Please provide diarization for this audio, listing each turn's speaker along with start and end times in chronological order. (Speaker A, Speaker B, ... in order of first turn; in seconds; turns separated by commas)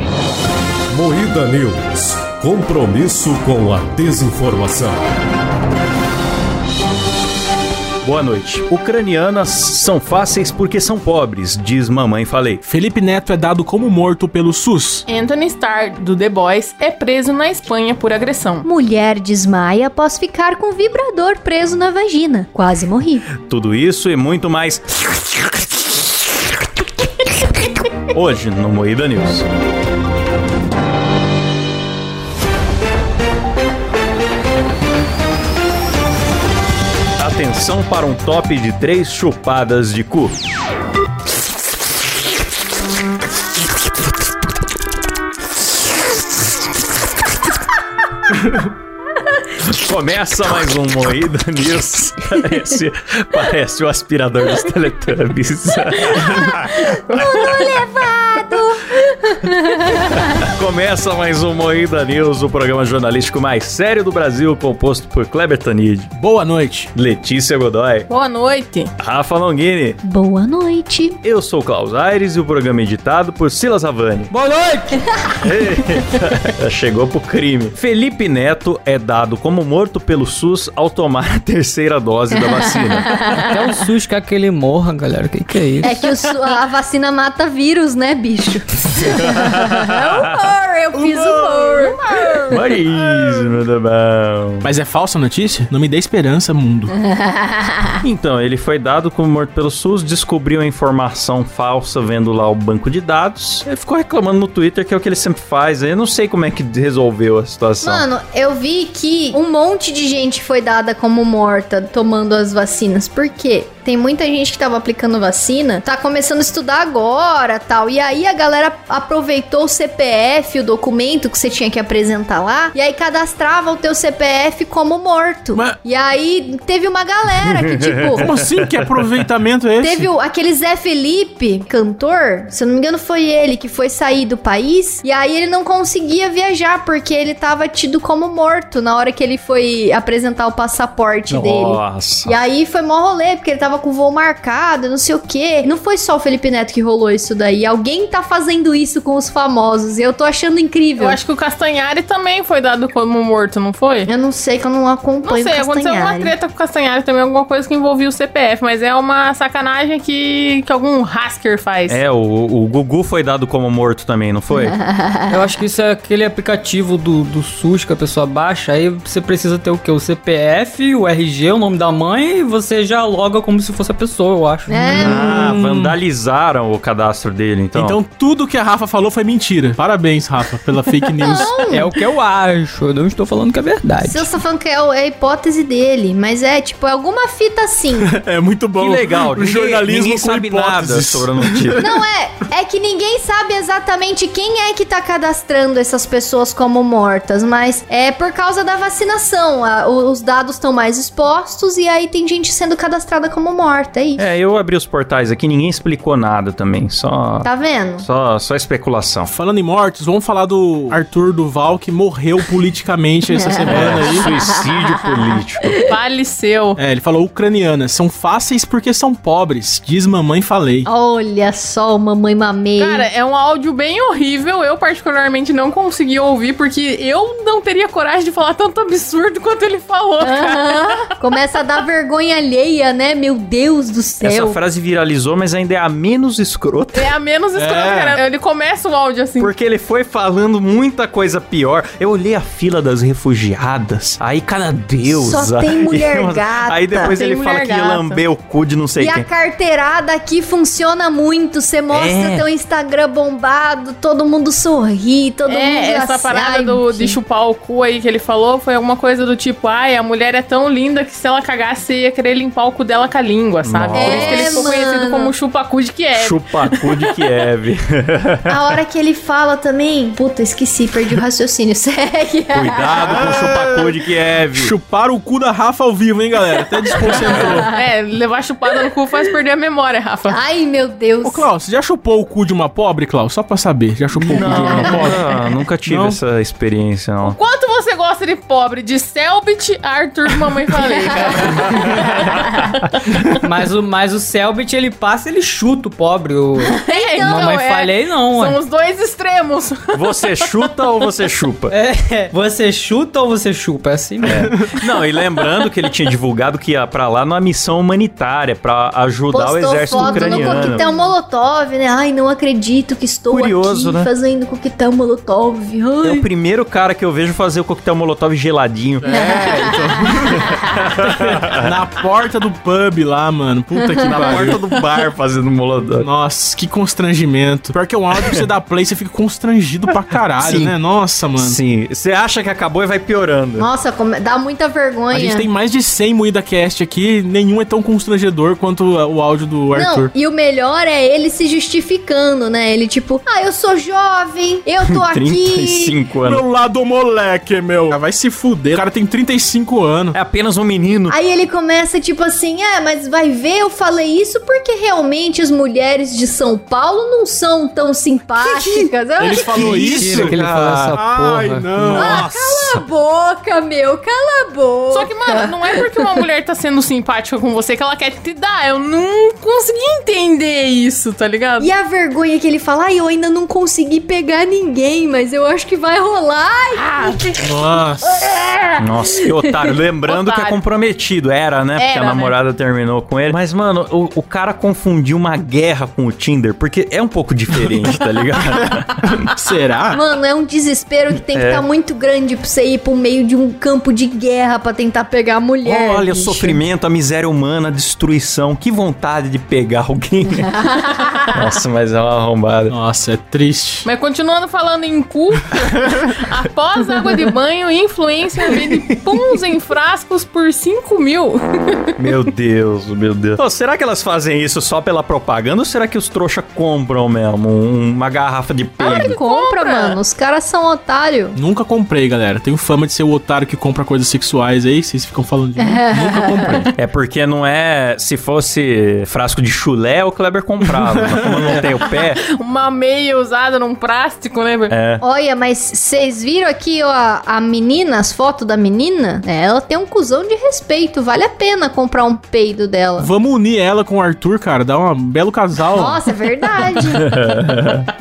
Speaker A: 0.9-5.0, Speaker B: 8.0-12.6, Speaker C: 12.6-15.0, Speaker D: 15.1-18.7, Speaker E: 18.6-23.3, Speaker B: 23.4-24.8, Speaker B: 28.1-29.4, Speaker B: 37.2-40.4, Speaker B: 49.7-56.9, Speaker E: 56.6-60.2, Speaker D: 57.1-57.5, Speaker B: 60.2-66.1, Speaker C: 66.1-66.9, Speaker B: 66.9-68.1, Speaker D: 68.1-68.9, Speaker B: 69.0-70.0, Speaker E: 70.0-71.2, Speaker B: 71.2-74.3, Speaker F: 74.3-75.0, Speaker B: 75.4-83.1, Speaker E: 82.3-83.6, Speaker F: 83.4-85.9, Speaker E: 85.8-92.6, Speaker B: 89.1-90.5, Speaker C: 90.9-91.7, Speaker D: 91.7-92.5, Speaker B: 92.5-94.7, Speaker C: 94.6-96.9, Speaker E: 97.0-98.0, Speaker B: 98.0-108.0, Speaker E: 107.8-128.2, Speaker B: 127.4-129.2, Speaker C: 128.2-130.1, Speaker E: 129.8-151.2, Speaker B: 141.3-142.4, Speaker D: 151.0-154.1, Speaker E: 154.1-156.3, Speaker D: 155.2-162.0, Speaker B: 161.9-164.8, Speaker E: 164.5-165.4, Speaker F: 165.3-175.1, Speaker E: 174.7-175.5, Speaker B: 174.9-178.0, Speaker C: 174.9-175.9, Speaker C: 177.7-181.5, Speaker E: 181.2-181.9, Speaker F: 181.7-184.3, Speaker E: 184.0-188.1, Speaker C: 187.9-191.8, Speaker B: 188.8-191.8, Speaker E: 191.8-204.3, Speaker B: 204.2-209.3, Speaker E: 207.4-208.1, Speaker C: 209.3-214.3, Speaker E: 213.3-214.8, Speaker B: 213.7-215.7, Speaker D: 215.9-216.8, Speaker C: 216.8-220.9, Speaker E: 220.8-223.0, Speaker D: 222.8-231.1, Speaker E: 230.2-234.6, Speaker B: 234.2-237.1, Speaker D: 236.9-239.5, Speaker C: 237.5-238.2, Speaker B: 239.4-249.3, Speaker E: 245.1-247.2, Speaker D: 247.1-248.2, Speaker E: 249.0-257.2, Speaker B: 251.9-252.5, Speaker D: 255.5-266.9, Speaker B: 263.6-264.7, Speaker E: 263.9-265.3, Speaker B: 266.1-268.7, Speaker E: 268.5-273.4, Speaker B: 272.5-274.7, Speaker C: 273.0-273.8, Speaker C: 274.5-277.7, Speaker E: 276.9-277.6, Speaker D: 277.7-280.4, Speaker E: 280.3-281.4, Speaker C: 281.2-286.2, Speaker B: 284.1-287.4, Speaker E: 284.4-285.1, Speaker D: 287.2-291.9, Speaker F: 293.2-298.6, Speaker D: 296.8-300.7, Speaker E: 296.9-297.6, Speaker B: 299.9-301.7, Speaker F: 301.7-304.5, Speaker B: 304.2-310.8, Speaker E: 309.3-316.2, Speaker B: 313.3-314.1, Speaker B: 316.0-319.1, Speaker C: 319.0-324.6, Speaker E: 319.1-320.6, Speaker B: 320.7-321.7, Speaker E: 323.8-324.3, Speaker B: 324.0-326.1, Speaker C: 326.0-331.6, Speaker B: 330.4-330.7, Speaker B: 331.4-333.7, Speaker E: 333.6-335.5, Speaker C: 335.1-340.1, Speaker E: 339.7-346.0, Speaker B: 344.8-346.4, Speaker C: 346.2-350.2, Speaker B: 350.1-351.1, Speaker E: 351.1-360.1, Speaker C: 358.4-362.3, Speaker B: 359.3-360.9, Speaker F: 359.5-362.1, Speaker B: 361.8-362.8, Speaker E: 361.9-366.0, Speaker D: 364.9-371.7, Speaker E: 371.6-377.4, Speaker D: 376.8-377.2, Speaker C: 377.4-378.2, Speaker E: 378.0-379.5, Speaker B: 378.8-389.2, Speaker D: 380.1-380.6, Speaker D: 381.8-382.4, Speaker C: 389.0-390.0, Speaker E: 389.9-396.6, Speaker B: 391.3-391.6, Speaker B: 395.6-400.6, Speaker B: 401.3-402.7, Speaker C: 402.7-403.9, Speaker D: 403.8-411.9, Speaker B: 412.0-419.2, Speaker D: 418.8-420.0, Speaker E: 419.0-421.4, Speaker C: 421.3-426.7, Speaker E: 425.6-426.5, Speaker B: 426.7-432.2, Speaker C: 431.2-431.6, Speaker D: 431.9-434.8, Speaker B: 434.7-435.0, Speaker E: 435.0-443.1, Speaker C: 443.0-446.1, Speaker E: 445.7-447.2, Speaker B: 446.8-447.9